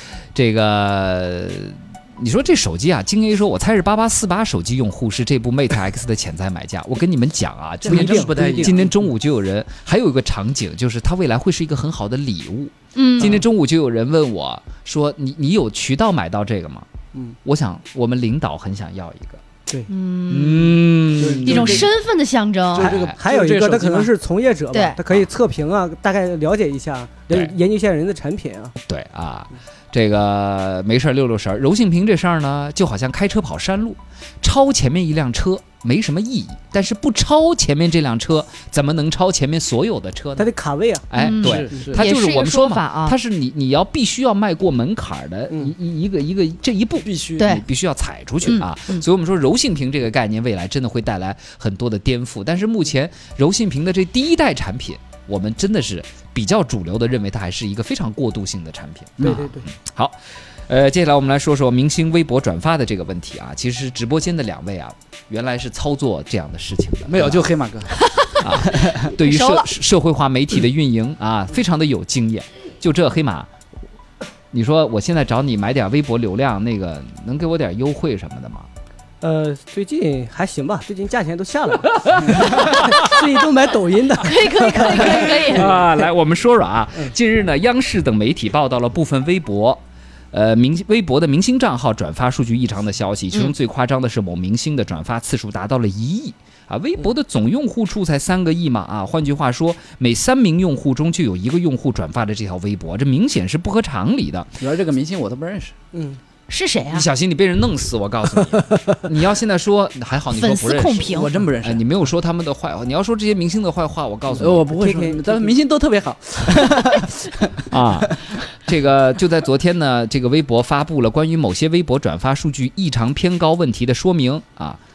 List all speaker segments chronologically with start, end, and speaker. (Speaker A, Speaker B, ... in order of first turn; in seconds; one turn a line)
Speaker A: 0.3-16.9
Speaker B: 7.8-9.0
Speaker C: 7.8-8.8
Speaker D: 12.9-13.4
Speaker A: 17.4-19.4
Speaker D: 19.9-22.9
Speaker A: 20.3-21.9
Speaker B: 21.2-21.9
Speaker B: 22.7-24.1
Speaker A: 22.8-23.2
Speaker C: 22.9-28.7
Speaker A: 28.8-40.5
Speaker C: 40.4-41.1
Speaker A: 41.1-67.5
Speaker D: 41.1-43.2
Speaker B: 41.4-42.0
Speaker B: 47.0-47.6
Speaker D: 47.4-47.6
Speaker D: 48.5-49.0
Speaker B: 59.2-59.5
Speaker C: 59.2-59.7
Speaker B: 67.1-69.1
Speaker D: 67.9-69.7
Speaker A: 68.4-73.5
Speaker A: 74.5-78.7
Speaker C: 79.2-86.0
Speaker A: 81.9-83.3
Speaker D: 84.2-85.8
Speaker A: 85.0-104.6
Speaker B: 104.6-105.8
Speaker C: 105.9-106.2
Speaker D: 106.5-107.1
Speaker A: 106.9-114.7
Speaker D: 110.3-111.3
Speaker B: 111.0-111.8
Speaker B: 114.3-118.4
Speaker C: 114.8-115.5
Speaker A: 117.7-124.8